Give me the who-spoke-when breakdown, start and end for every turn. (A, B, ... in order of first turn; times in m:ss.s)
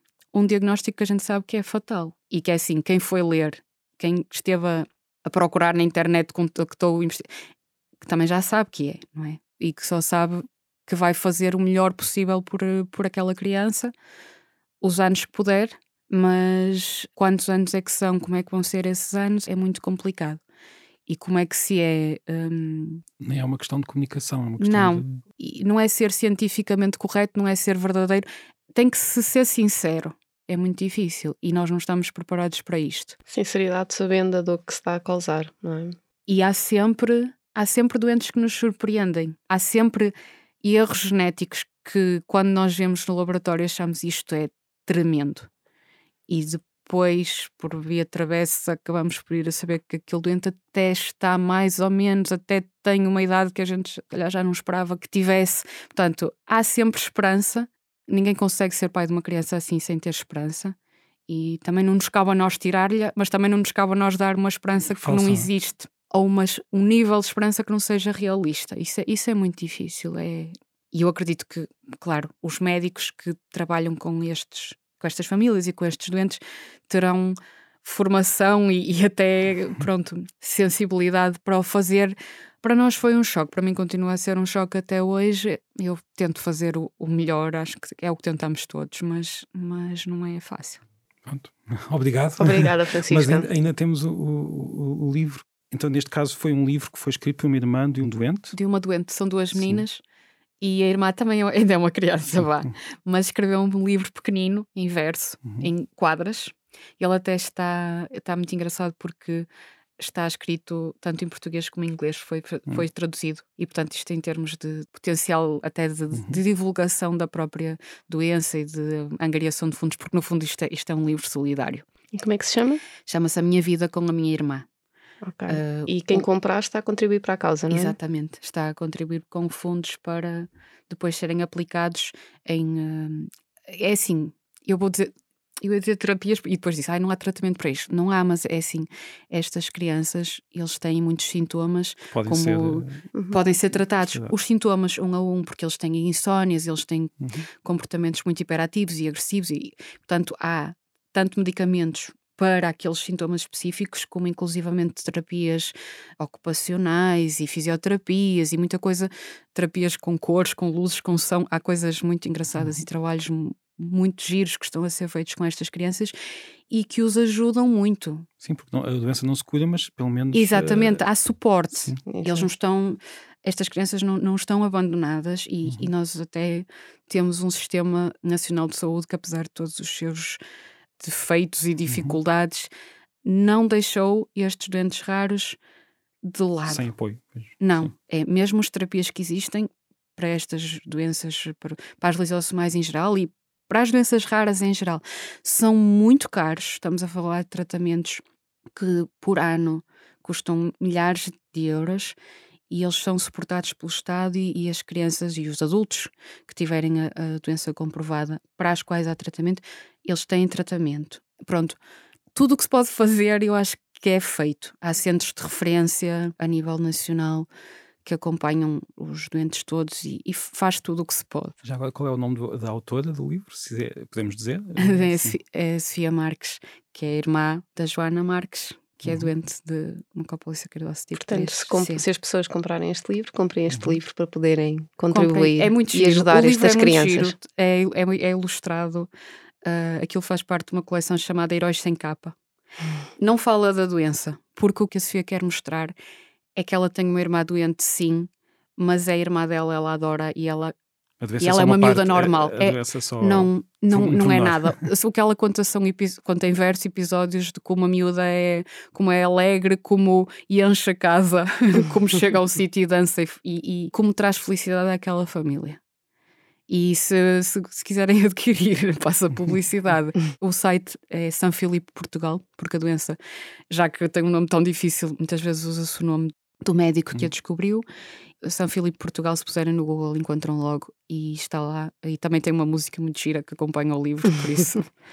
0:00.3-0:07.3 A
0:08.0-0:13.9 A
0:14.8-0:20.4 A
0:21.1-0:23.0 A
0:23.2-0:25.2 B
0:24.6-0:33.2 A
0:33.3-0:36.0 C
0:36.3-0:45.5 A
0:46.3-1:00.7 A
1:01.3-1:30.8 A
1:05.0-1:05.5 B
1:31.2-1:38.5 B
1:32.4-1:33.5 C
1:38.5-1:40.0 A
1:39.5-1:39.8 B
1:40.6-1:49.5 A
1:50.0-2:01.8 A
1:56.1-1:56.4 B
2:02.1-2:02.8 C
2:03.0-2:04.6 A
2:05.2-2:08.0 C
2:05.5-2:06.2 A
2:07.7-2:46.2 A
2:22.1-2:23.0 B
2:24.0-2:24.3 B
2:46.7-2:48.3 A
2:48.4-2:51.0 B
2:50.3-3:00.4 A
2:52.0-2:52.5 C
3:01.0-3:02.7 A
3:01.9-3:02.2 B
3:03.2-3:05.6 A
3:06.2-3:06.9 A
3:06.7-3:07.9 B
3:07.6-3:18.2 A
3:18.8-3:22.2 A
3:22.7-3:31.8 A
3:32.3-3:37.5 A
3:38.0-3:41.5 A
3:41.6-3:45.3 B
3:44.8-3:52.0 A
3:51.2-3:57.3 C
3:53.7-3:53.9 B
3:55.1-3:59.1 A
3:59.6-4:02.3 A
4:03.2-4:05.9 A
4:06.6-4:10.7 A
4:11.2-4:14.8 B
4:11.4-4:25.8 A
4:26.7-4:33.2 A
4:33.7-4:37.8 A
4:38.4-4:44.9 A